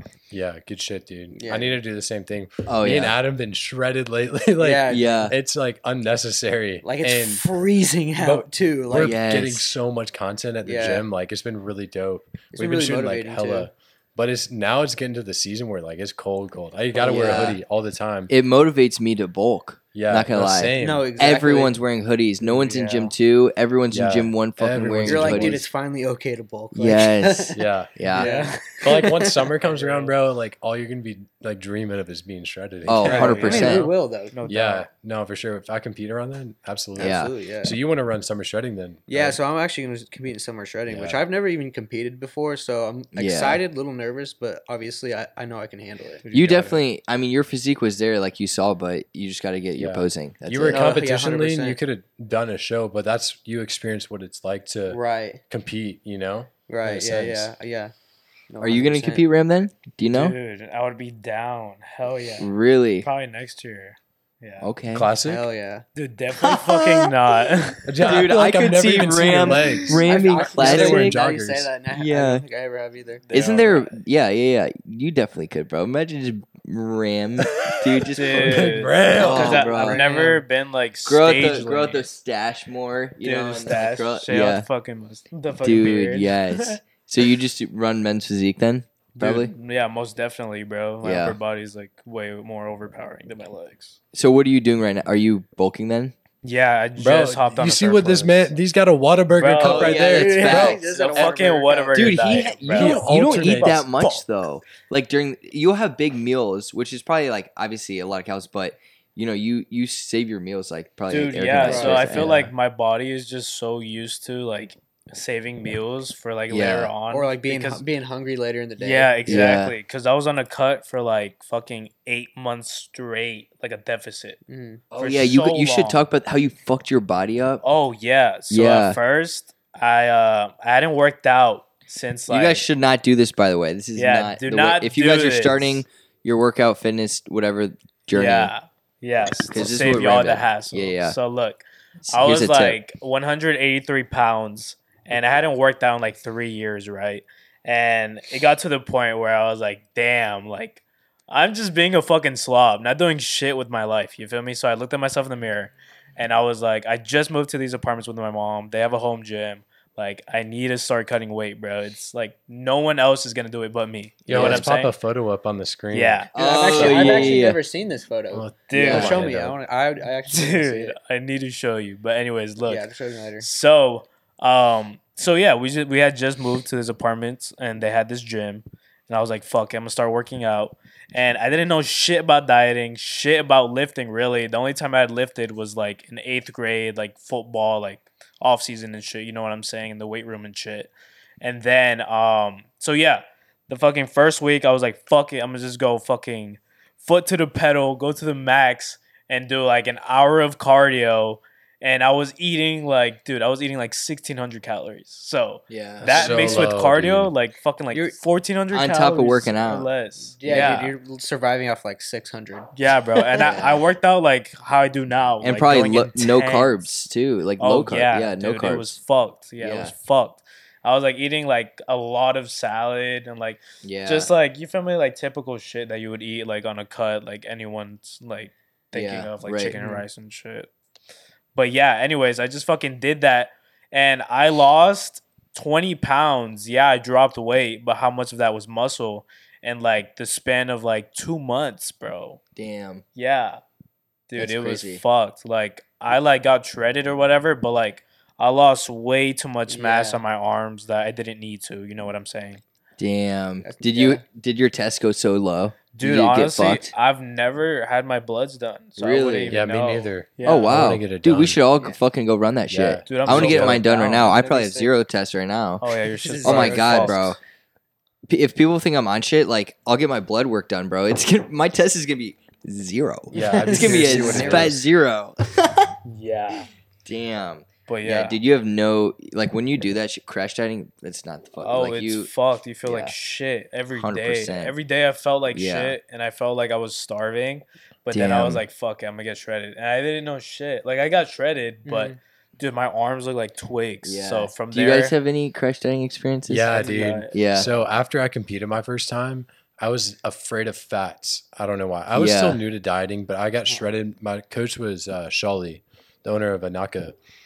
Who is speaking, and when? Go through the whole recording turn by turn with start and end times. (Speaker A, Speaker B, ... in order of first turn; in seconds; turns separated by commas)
Speaker A: 0.3-7.4, Speaker B: 1.3-1.8, Speaker C: 2.7-3.1, Speaker B: 4.6-5.3, Speaker C: 4.9-5.3, Speaker B: 6.8-9.2, Speaker A: 8.2-18.3, Speaker C: 9.0-9.7, Speaker B: 10.6-11.0, Speaker B: 12.5-13.7, Speaker B: 16.9-17.6, Speaker C: 17.1-17.6, Speaker C: 18.3-25.6, Speaker A: 19.9-21.1, Speaker B: 20.8-21.8, Speaker D: 22.4-23.1, Speaker A: 23.9-25.6, Speaker B: 25.0-29.4, Speaker C: 26.7-28.3, Speaker A: 27.5-28.0, Speaker D: 28.1-28.6, Speaker A: 28.8-33.8, Speaker D: 29.6-30.1, Speaker C: 32.9-33.9, Speaker D: 33.0-34.9, Speaker B: 33.0-34.4, Speaker A: 34.5-39.4, Speaker B: 37.0-37.8, Speaker C: 37.0-37.3, Speaker B: 39.1-46.2, Speaker A: 40.9-41.2, Speaker C: 43.1-43.6, Speaker D: 46.2-46.8, Speaker C: 46.3-50.9, Speaker A: 49.8-55.0, Speaker B: 50.6-51.8, Speaker B: 54.9-55.4, Speaker A: 55.5-57.5, Speaker B: 56.7-57.9, Speaker B: 58.5-59.2, Speaker C: 58.6-60.4, Speaker D: 60.1-62.5, Speaker C: 62.4-63.1, Speaker D: 63.0-64.7, Speaker C: 64.6-65.1, Speaker A: 64.9-65.4, Speaker B: 65.2-65.8, Speaker D: 65.9-68.2, Speaker C: 66.3-67.4, Speaker A: 67.8-70.0, Speaker C: 68.0-71.2, Speaker D: 69.4-70.0, Speaker B: 70.0-73.2, Speaker A: 70.5-71.7, Speaker C: 71.9-72.4, Speaker D: 73.2-74.0, Speaker C: 73.3-80.0, Speaker A: 78.0-79.6, Speaker D: 78.1-82.0, Speaker B: 79.2-80.4, Speaker C: 81.0-84.7, Speaker D: 83.2-86.8, Speaker C: 85.5-89.5, Speaker D: 89.2-94.0, Speaker C: 91.0-91.4, Speaker C: 94.1-96.1, Speaker D: 96.4-98.5, Speaker A: 97.0-100.8, Speaker D: 99.3-104.2, Speaker C: 99.6-101.2, Speaker B: 100.0-102.5, Speaker C: 101.9-112.5, Speaker A: 102.7-103.8, Speaker D: 111.1-117.8, Speaker B: 111.6-112.1, Speaker A: 112.1-112.5, Speaker C: 116.5-116.9, Speaker B: 117.1-119.6, Speaker D: 118.8-124.4, Speaker C: 119.2-119.8, Speaker B: 124.5-124.8, Speaker C: 124.9-127.6, Speaker D: 125.0-126.0, Speaker D: 127.6-132.6, Speaker C: 128.5-129.0, Speaker C: 132.3-138.5, Speaker D: 133.9-135.8, Speaker D: 138.1-164.9, Speaker C: 139.5-141.2, Speaker C: 142.0-142.8, Speaker A: 164.3-166.3, Speaker C: 164.3-164.6, Speaker D: 165.9-167.4, Speaker C: 166.3-167.6, Speaker B: 166.3-170.9, Speaker A: 168.3-169.6, Speaker D: 168.7-169.2, Speaker C: 168.8-169.1, Speaker D: 170.3-172.9, Speaker B: 172.7-173.4, Speaker D: 173.4-210.9, Speaker C: 205.7-206.7, Speaker A: 206.0-207.3, Speaker C: 208.7-209.9, Speaker B: 210.3-213.5, Speaker C: 210.4-210.9, Speaker D: 212.7-216.8, Speaker C: 213.4-213.8, Speaker C: 215.4-219.0, Speaker D: 217.6-230.7, Speaker C: 219.6-219.9, Speaker C: 223.8-224.3, Speaker C: 228.9-229.8, Speaker B: 229.8-230.1, Speaker D: 231.5-242.4, Speaker C: 242.6-243.0, Speaker D: 243.2-243.6, Speaker D: 244.3-252.6, Speaker C: 244.4-245.0, Speaker B: 249.7-250.2, Speaker C: 253.0-256.9, Speaker B: 253.6-254.2, Speaker D: 255.9-261.0, Speaker C: 259.0-259.6, Speaker A: 259.5-261.6, Speaker C: 260.4-265.9, Speaker A: 262.7-263.8, Speaker D: 263.1-264.3, Speaker B: 263.7-264.9, Speaker D: 265.8-267.4, Speaker B: 266.2-267.3, Speaker C: 266.4-267.4, Speaker C: 268.3-276.0, Speaker A: 273.3-274.8, Speaker B: 273.3-274.8, Speaker D: 276.1-276.7, Speaker C: 277.0-282.3, Speaker D: 277.9-278.4, Speaker D: 281.6-295.1, Speaker C: 282.8-283.1, Speaker C: 283.9-284.7, Speaker C: 285.5-285.9, Speaker C: 288.1-288.6, Speaker B: 291.9-292.2, Speaker C: 294.0-296.8, Speaker A: 296.5-307.1, Speaker D: 296.7-297.4, Speaker C: 297.3-297.7, Speaker C: 302.1-302.6